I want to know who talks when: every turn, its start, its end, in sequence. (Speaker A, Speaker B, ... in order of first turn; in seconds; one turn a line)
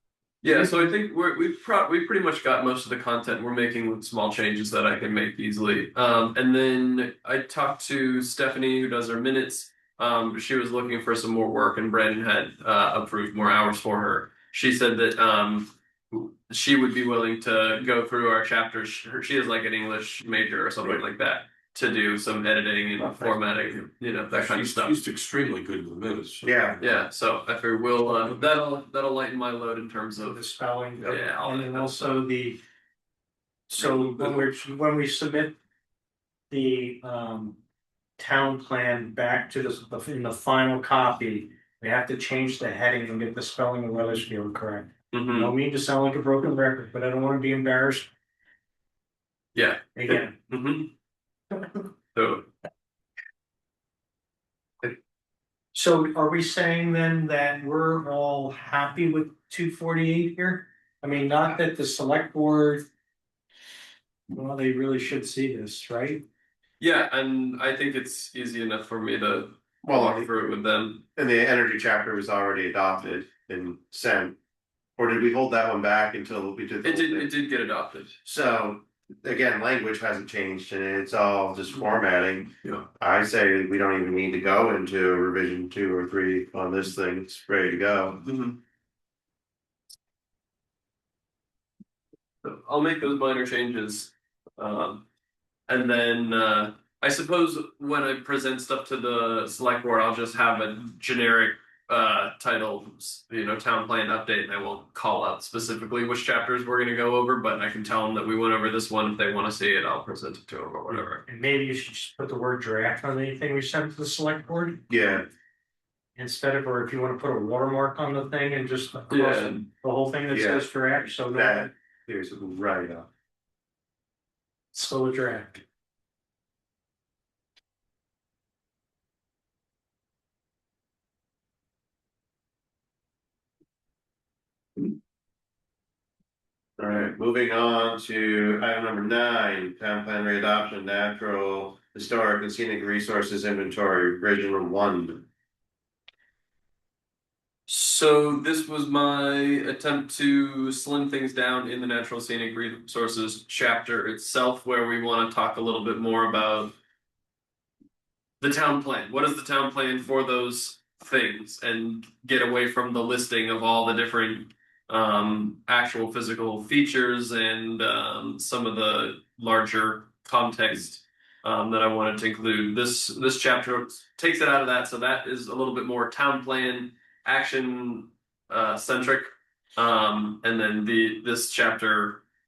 Speaker A: 0.4-25.0
Speaker B: 0.5-0.9
Speaker C: 23.0-23.4
Speaker C: 24.3-26.8
Speaker D: 26.4-26.8
Speaker A: 26.8-30.4
Speaker B: 30.3-32.6
Speaker C: 31.0-31.3
Speaker A: 31.1-32.0
Speaker B: 33.7-35.6
Speaker C: 34.0-34.4
Speaker B: 36.5-37.6
Speaker B: 38.2-48.1
Speaker A: 45.1-45.5
Speaker A: 49.5-50.9
Speaker B: 50.0-50.4
Speaker A: 52.1-52.5
Speaker B: 55.7-62.9
Speaker B: 64.3-66.2
Speaker A: 66.8-71.0
Speaker D: 69.8-70.3
Speaker D: 71.2-74.4
Speaker D: 75.0-77.3
Speaker A: 76.8-78.2
Speaker D: 78.2-88.2
Speaker A: 88.2-88.6
Speaker A: 92.4-95.0
Speaker A: 95.7-111.2
Speaker B: 111.3-114.8
Speaker D: 114.9-115.3
Speaker B: 116.2-121.7
Speaker A: 119.1-119.7
Speaker D: 120.3-120.7
Speaker D: 121.3-123.1
Speaker B: 124.7-125.6
Speaker D: 136.8-145.3
Speaker A: 147.7-156.8
Speaker A: 158.4-182.2